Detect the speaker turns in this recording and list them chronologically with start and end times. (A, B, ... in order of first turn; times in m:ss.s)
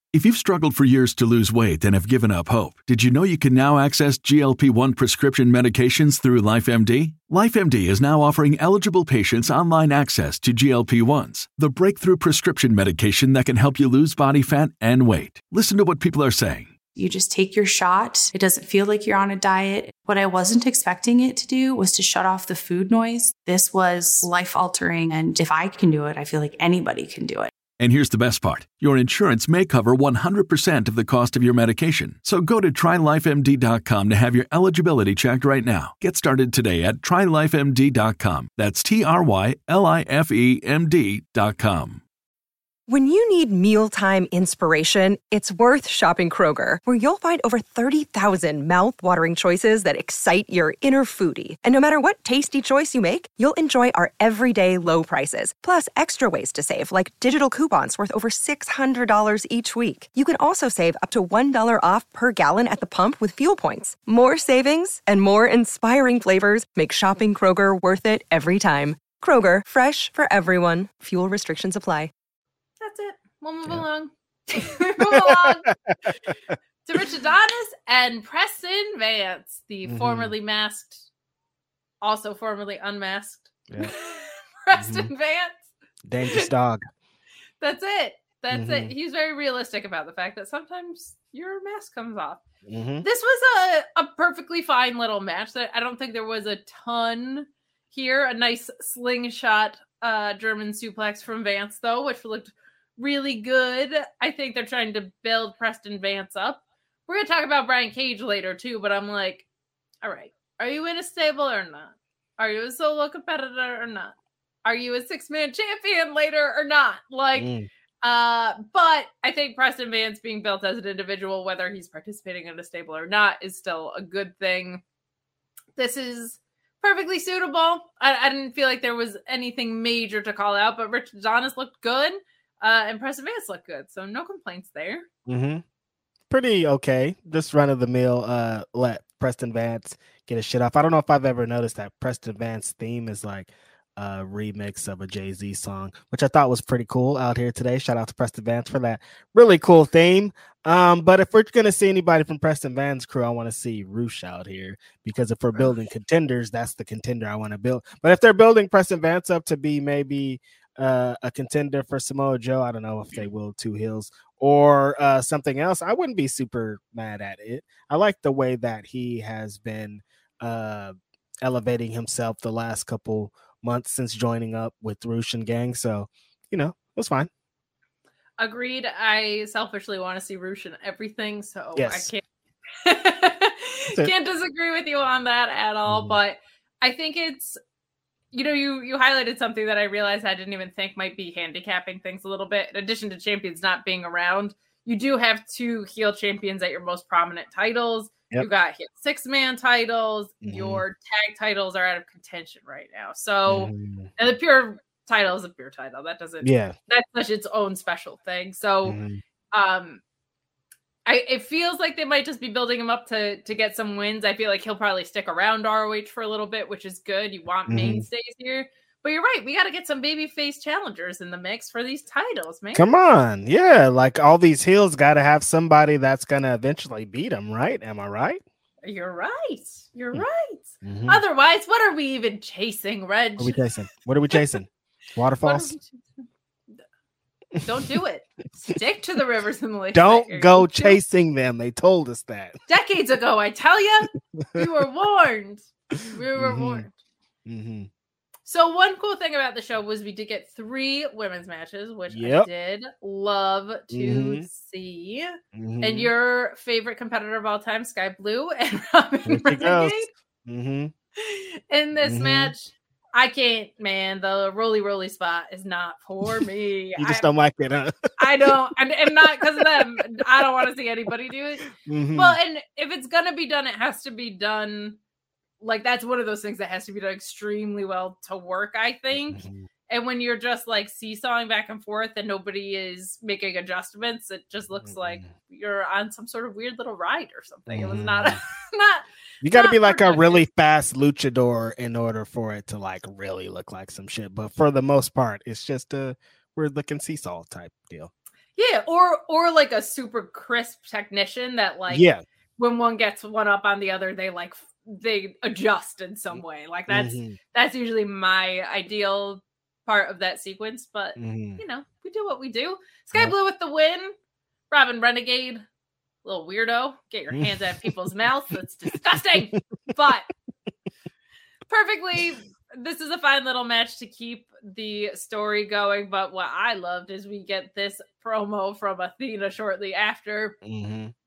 0:00.1-0:16.8 A
0:17.0-0:27.5 B
0:27.8-0:42.0 A
0:42.9-1:12.1 C
1:12.8-1:15.7 D
1:15.0-1:16.1 E
1:16.8-1:21.1 D
1:19.8-1:20.3 E
1:22.0-1:25.6 D
1:24.7-1:25.1 E
1:26.0-1:26.8 E
1:27.6-1:32.4 D
1:28.5-1:28.9 E
1:32.6-1:33.0 E
1:33.0-1:49.4 D
1:50.0-1:57.5 D
1:57.4-1:57.7 E
1:58.0-2:04.8 D
2:05.8-2:15.1 D
2:15.2-2:15.6 E
2:16.3-2:57.3 E
2:58.4-3:02.2 D
3:01.7-3:02.1 E
3:02.8-3:07.6 D
3:05.9-3:06.2 E
3:08.3-3:29.0 D
3:20.4-3:20.8 E
3:23.5-3:24.1 E
3:26.4-3:26.7 E
3:28.8-3:29.2 E
3:29.5-3:30.0 D
3:31.0-3:42.9 D
3:37.7-3:38.0 E
3:42.7-3:48.4 E
3:48.8-3:53.6 D
3:50.8-3:51.2 E
3:53.4-3:55.8 E
3:55.4-3:56.0 D
3:57.6-3:57.9 E
3:57.6-4:01.0 D
3:59.9-4:02.6 E
4:02.7-4:06.9 D
4:04.4-4:04.6 E
4:06.0-4:06.9 E
4:07.4-4:07.9 E
4:08.4-4:20.1 D
4:12.1-4:12.5 E
4:13.9-4:14.5 E
4:15.5-4:16.1 E
4:19.3-4:20.9 E
4:21.2-4:27.2 D
4:22.0-4:22.5 E
4:27.0-4:28.6 E
4:28.2-4:35.0 D
4:29.2-4:30.4 E
4:31.7-4:32.4 E
4:35.6-4:50.4 D
4:39.3-4:39.7 E
4:44.8-4:45.3 E
4:47.7-4:48.4 E
4:49.4-4:58.1 E
4:58.6-5:02.0 D
5:01.9-5:02.2 E
5:02.6-5:14.1 D
5:06.3-5:07.4 E
5:11.2-5:11.6 E
5:14.7-5:15.6 D
5:16.2-5:20.3 D
5:17.3-5:17.9 E
5:18.9-5:19.6 E
5:21.7-5:30.6 D
5:30.6-5:31.1 E